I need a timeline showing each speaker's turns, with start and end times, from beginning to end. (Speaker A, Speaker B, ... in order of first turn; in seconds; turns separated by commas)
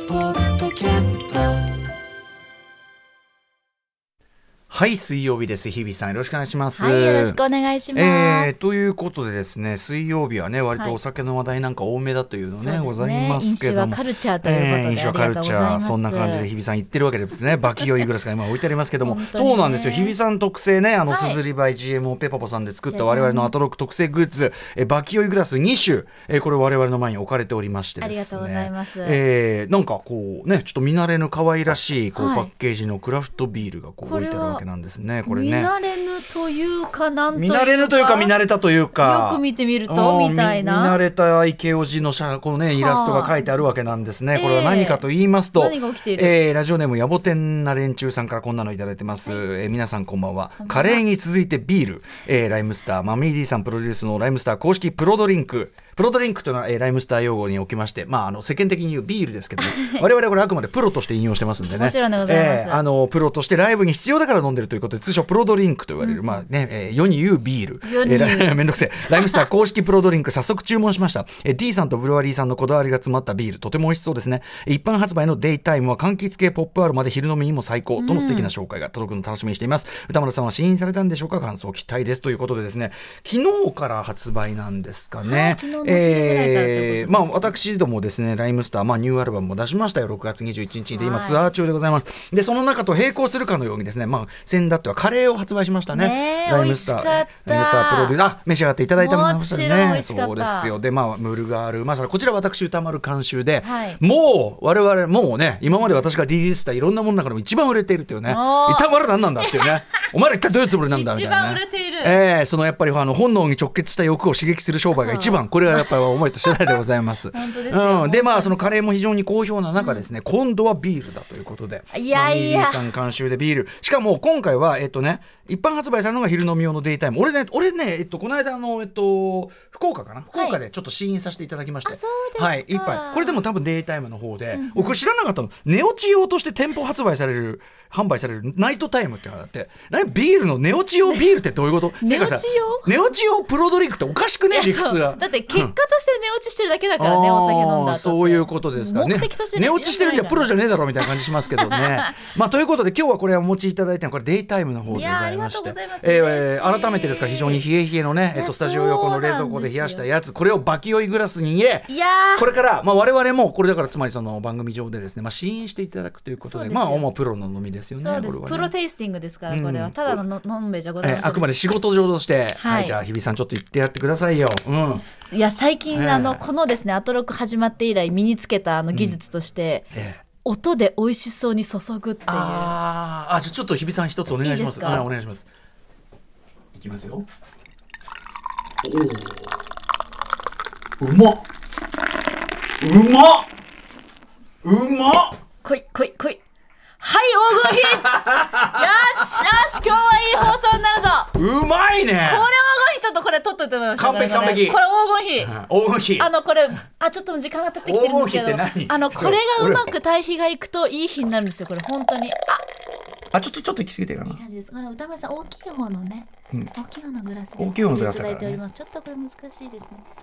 Speaker A: 1.1-1.4, Speaker A: 4.7-7.4, Speaker B: 6.8-8.6, Speaker A: 7.9-35.7, Speaker B: 12.5-16.5, Speaker B: 19.0-20.1, Speaker B: 21.1-21.4, Speaker B: 22.9-23.5, Speaker B: 28.0-29.2, Speaker B: 32.2-32.5, Speaker B: 34.0-34.6, Speaker B: 35.2-38.3, Speaker A: 37.3-145.7, Speaker B: 39.0-41.0, Speaker B: 42.7-43.4, Speaker B: 44.3-45.0, Speaker B: 45.5-46.4, Speaker B: 50.6-51.0, Speaker B: 59.6-60.0, Speaker B: 61.7-62.8, Speaker B: 67.8-68.6, Speaker B: 78.0-78.5, Speaker B: 85.2-87.6, Speaker B: 91.0-91.4, Speaker B: 95.9-98.2, Speaker B: 99.0-100.7, Speaker B: 103.6-104.0, Speaker B: 108.3-108.9, Speaker B: 109.4-109.7, Speaker B: 110.8-112.2, Speaker B: 114.9-115.9, Speaker B: 116.5-116.8, Speaker B: 117.3-118.7, Speaker B: 121.9-122.9, Speaker B: 131.8-133.4, Speaker B: 134.5-135.0, Speaker B: 142.0-142.9, Speaker B: 144.5-152.2, Speaker A: 147.0-168.7, Speaker B: 154.9-157.6, Speaker B: 158.3-160.1, Speaker B: 161.9-162.5, Speaker B: 166.4-167.1, Speaker B: 168.0-171.5, Speaker A: 169.5-170.2, Speaker A: 171.0-175.0, Speaker B: 172.6-173.0, Speaker B: 175.2-179.9, Speaker A: 175.9-176.4, Speaker A: 179.9-180.2, Speaker B: 180.4-182.7, Speaker A: 182.3-185.5, Speaker B: 184.4-185.1, Speaker A: 186.7-187.3, Speaker A: 188.8-189.6, Speaker A: 191.0-191.5, Speaker A: 192.8-193.5, Speaker A: 194.6-195.4, Speaker B: 195.6-196.4, Speaker B: 197.0-201.3, Speaker A: 197.6-199.6, Speaker A: 201.3-202.5, Speaker B: 202.2-205.5, Speaker A: 204.0-204.8, Speaker A: 205.4-206.3, Speaker B: 206.2-212.6, Speaker A: 207.8-209.9, Speaker A: 213.3-214.4, Speaker B: 214.2-220.0, Speaker A: 217.6-218.6